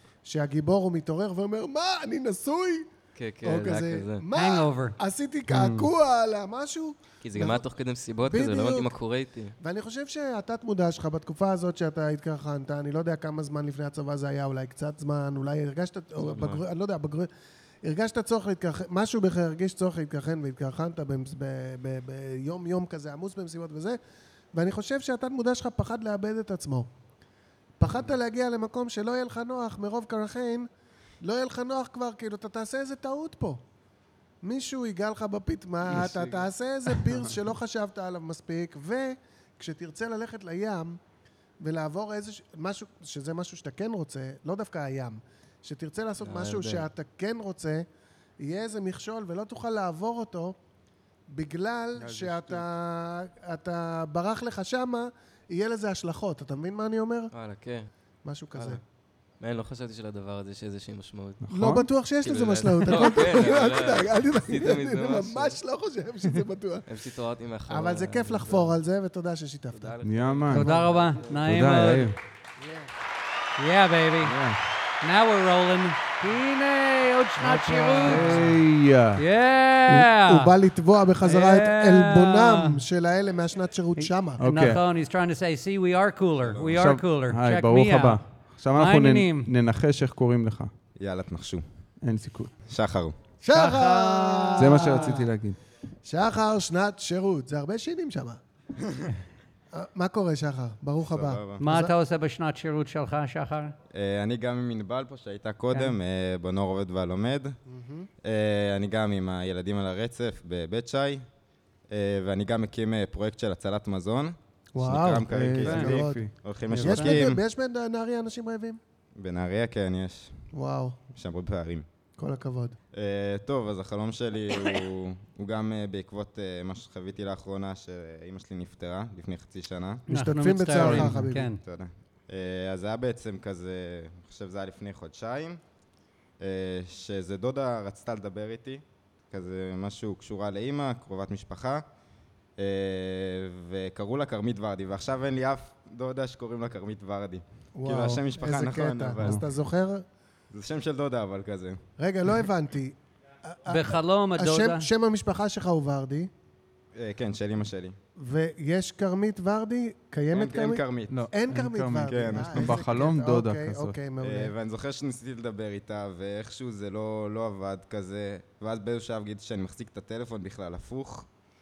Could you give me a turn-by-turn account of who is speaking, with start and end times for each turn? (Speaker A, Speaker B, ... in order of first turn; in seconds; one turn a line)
Speaker A: 0.2-2.9
Speaker B: 3.1-4.2
Speaker A: 3.4-7.7
Speaker C: 4.3-5.0
Speaker D: 5.5-5.9
Speaker B: 7.2-9.6
Speaker A: 8.2-8.9
Speaker A: 9.6-17.3
Speaker B: 16.2-16.6
Speaker A: 17.8-24.0
Speaker A: 24.5-26.9
Speaker A: 27.8-30.7
Speaker A: 31.2-33.6
Speaker A: 34.4-41.0
Speaker D: 35.9-37.4
Speaker A: 41.6-47.9
Speaker B: 46.2-46.9
Speaker A: 48.4-50.6
Speaker A: 51.3-57.3
Speaker D: 52.0-52.7
Speaker B: 57.3-57.9
Speaker A: 58.2-58.8
Speaker B: 58.5-58.8
Speaker B: 59.4-61.4
Speaker D: 61.4-61.9
Speaker A: 61.5-66.9
Speaker B: 62.2-65.6
Speaker B: 66.9-68.8
Speaker A: 67.7-70.0
Speaker B: 69.7-71.5
Speaker D: 70.0-70.7
Speaker C: 70.5-72.1
Speaker A: 70.7-71.1
Speaker D: 71.4-72.2
Speaker C: 73.6-74.3
Speaker D: 74.2-74.6
Speaker C: 75.0-78.6
Speaker A: 77.4-78.6
Speaker D: 78.0-79.2
Speaker C: 79.2-80.5
Speaker A: 80.0-84.4
Speaker C: 81.2-82.8
Speaker C: 84.0-88.2
Speaker D: 84.4-84.8
Speaker E: 86.4-86.7
Speaker D: 86.7-90.7
Speaker C: 88.7-89.5
Speaker E: 91.0-91.6
Speaker D: 92.0-92.5
Speaker E: 92.6-93.2
Speaker A: 93.4-95.3
Speaker C: 93.5-95.0
Speaker D: 94.6-95.6
Speaker A: 96.0-98.4
Speaker A: 99.7-101.9
Speaker E: 101.1-101.6
Speaker C: 101.6-103.7
Speaker E: 103.9-107.6
Speaker A: 107.7-108.1
Speaker E: 108.2-111.2
Speaker E: 111.9-117.4
Speaker A: 114.7-118.8
Speaker D: 115.3-116.3
Speaker C: 115.6-116.0
Speaker C: 116.7-117.2
Speaker E: 119.2-120.5
Speaker A: 120.5-121.0
Speaker E: 121.1-121.8
Speaker A: 122.2-122.8
Speaker E: 122.9-130.1
Speaker A: 130.1-131.6
Speaker C: 130.1-131.6
Speaker D: 130.8-131.2
Speaker E: 131.6-135.6
Speaker E: 136.4-141.8
Speaker E: 142.6-149.4
Speaker A: 147.8-150.1
Speaker E: 150.5-151.8
Speaker A: 152.0-156.3
Speaker C: 153.7-154.9
Speaker E: 157.0-158.0
Speaker A: 158.2-164.5
Speaker E: 160.3-161.3
Speaker D: 161.1-164.0
Speaker E: 162.0-162.7
Speaker E: 164.2-171.3